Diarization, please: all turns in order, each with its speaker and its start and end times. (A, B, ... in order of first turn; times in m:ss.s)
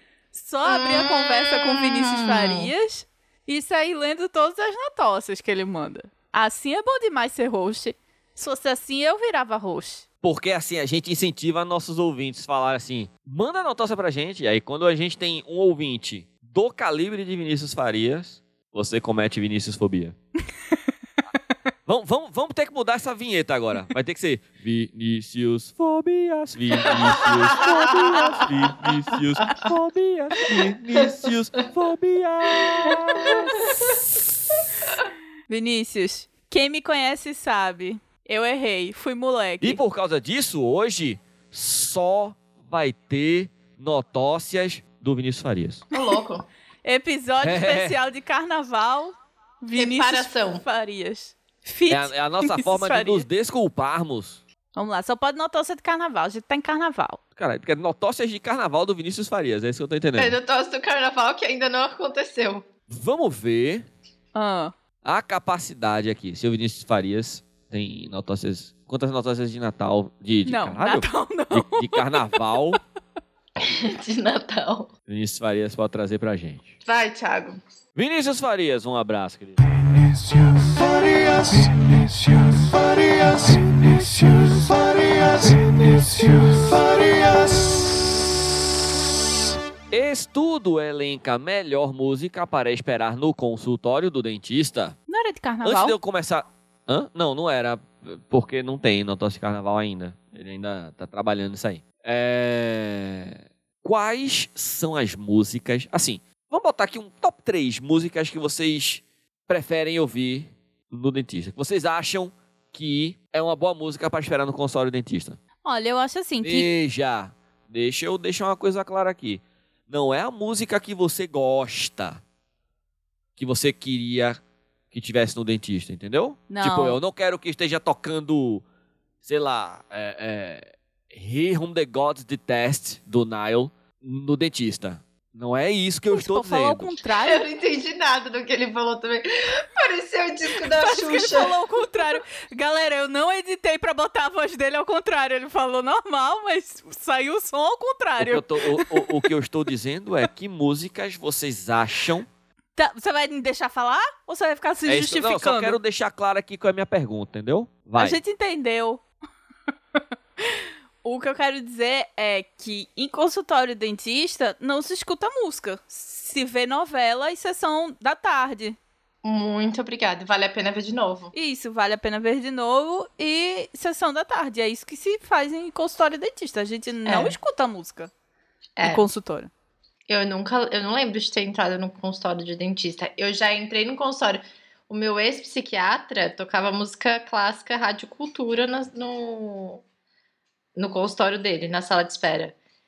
0:00.3-0:10.0 A
0:00.6-0:02.7 B
0:10.2-0:20.2 C
0:21.9-0:34.3 C
0:26.9-0:28.5 B
0:32.8-0:33.9 B
0:35.5-0:39.8 A
0:39.6-0:45.8 C
0:45.9-0:46.5 B
0:46.8-0:53.2 A
0:47.4-0:48.0 C
0:49.7-0:50.6 B
0:51.9-0:54.4 C
0:54.7-0:57.2 A
0:57.4-1:00.4 C
1:00.2-1:02.7 B
1:02.9-1:03.8 C
1:04.3-1:04.7 A
1:05.0-1:12.8 C
1:10.4-1:12.4 A
1:13.6-1:14.9 B
1:15.1-1:16.7 C
1:16.8-1:17.6 B
1:18.0-1:19.6 C
1:29.9-1:35.0 C
1:35.1-1:36.0 A
1:35.6-1:55.4 C
1:55.6-1:56.7 A
1:56.4-2:02.2 C
2:03.4-2:04.4 C
2:04.9-2:08.6 C
2:06.5-2:07.0 A
2:09.2-2:16.9 C
2:16.1-2:17.5 A
2:17.2-2:22.1 B
2:20.6-2:29.2 A
2:28.2-2:32.3 C
2:32.8-2:35.8 A
2:34.8-2:38.2 C
2:38.0-2:39.0 A
2:40.4-2:48.8 A
2:49.2-2:51.3 B
2:51.3-2:58.1 A
2:57.0-2:57.4 B
2:58.8-2:59.1 B
2:58.8-2:59.5 A
3:00.1-3:09.8 B
3:10.8-3:12.6 B